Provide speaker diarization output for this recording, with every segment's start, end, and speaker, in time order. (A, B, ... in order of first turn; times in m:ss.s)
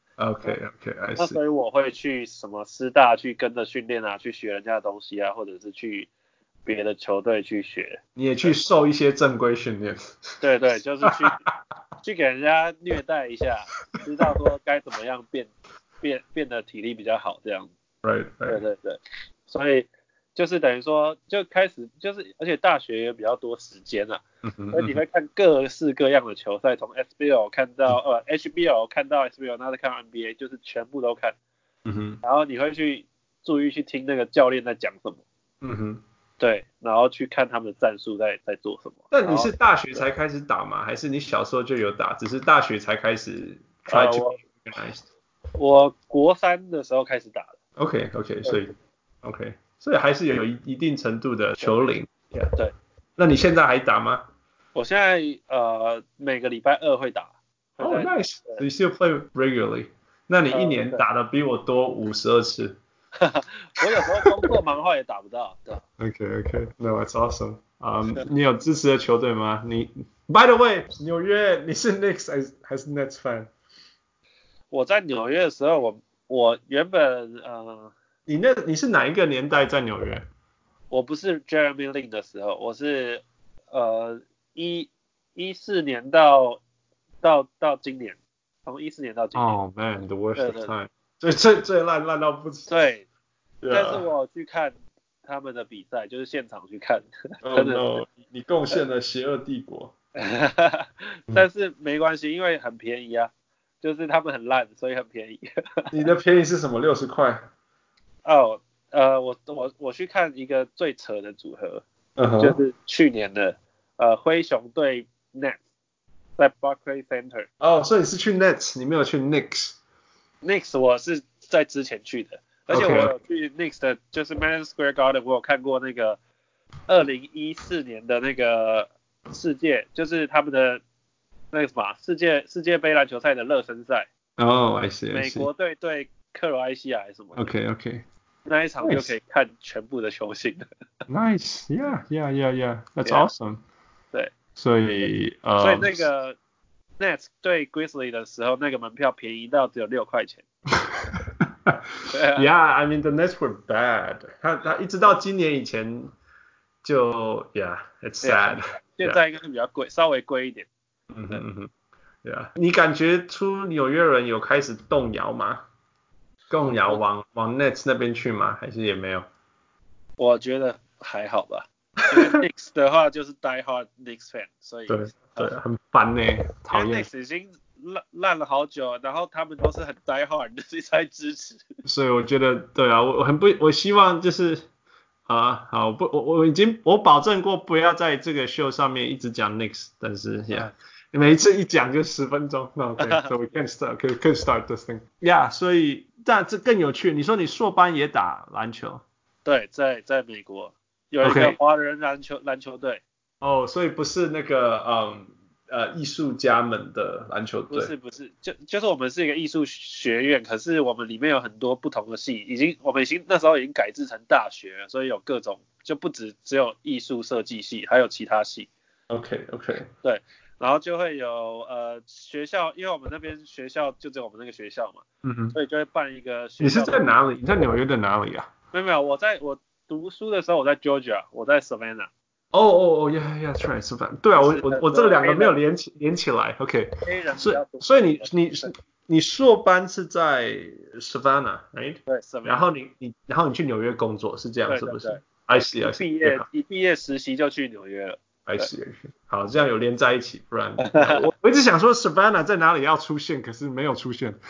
0:00.2-0:01.4 A
0:01.2-0:06.1 B
0:06.6-0:08.6 B
0:08.2-0:10.1 A
0:10.4-0:11.4 B
0:11.0-0:11.3 A
0:12.0-0:17.7 B
0:18.0-0:18.6 A
0:18.5-0:31.4 B
0:24.4-0:25.0 A
0:31.8-0:32.2 A
0:32.2-0:35.2 B
0:35.6-0:36.0 A
0:36.4-0:40.0 B
0:39.1-0:45.0 A
0:43.9-0:44.4 B
0:45.6-0:47.6 B
0:47.8-0:48.7 A
0:48.4-0:48.7 B
0:49.2-0:52.5 A
0:51.6-0:51.9 B
0:53.2-0:54.3 A
0:54.8-0:58.6 B
0:57.8-1:02.8 A
1:00.5-1:01.0 B
1:03.2-1:05.8 B
1:03.8-1:04.5 A
1:06.0-1:13.5 A
1:14.7-1:17.9 B
1:18.3-1:20.2 A
1:20.9-1:26.6 B
1:27.2-1:29.6 B
1:29.4-1:32.7 A
1:30.4-1:30.7 B
1:32.7-1:33.1 B
1:33.6-1:34.1 A
1:33.7-1:37.9 B
1:37.4-1:39.9 A
1:40.2-1:43.3 B
1:43.8-1:45.9 B
1:45.9-1:47.4 A
1:48.2-1:51.8 B
1:52.2-1:52.6 A
1:52.4-1:55.6 B
1:56.4-1:57.5 B
1:57.6-1:59.8 A
2:00.4-2:06.2 B
2:02.7-2:03.2 A
2:06.9-2:10.8 B
2:11.5-2:14.1 B
2:14.4-2:15.5 A
2:15.1-2:17.5 B
2:17.4-2:18.0 A
2:18.5-2:20.7 B
2:18.8-2:19.1 A
2:21.1-2:23.6 A
2:24.6-2:26.0 A
2:25.6-2:26.4 B
2:27.0-2:30.4 B
2:31.0-2:31.8 A
2:32.1-2:32.5 B
2:32.4-2:36.1 A
2:36.8-2:39.2 A
2:38.2-2:40.7 B
2:41.1-2:41.7 A
2:42.2-2:45.6 A
2:46.5-2:49.3 A
2:50.2-2:55.5 B
2:54.9-2:57.1 A
2:56.7-3:01.6 B
3:01.8-3:04.7 A
3:05.3-3:19.0 A
3:13.0-3:13.4 B
3:19.4-3:23.0 B
3:21.2-3:21.6 A
3:23.4-3:27.9 A
3:27.7-3:38.7 B
3:39.1-3:39.9 A
3:40.0-3:47.2 B
3:45.2-3:45.6 A
3:46.6-3:48.5 A
3:48.7-3:52.1 B
3:52.5-4:06.4 A
3:54.3-3:55.6 B
3:57.0-3:58.7 B
4:02.1-4:02.6 B
4:04.7-4:05.2 B
4:05.8-4:08.7 B
4:08.5-4:14.4 A
4:10.8-4:11.3 B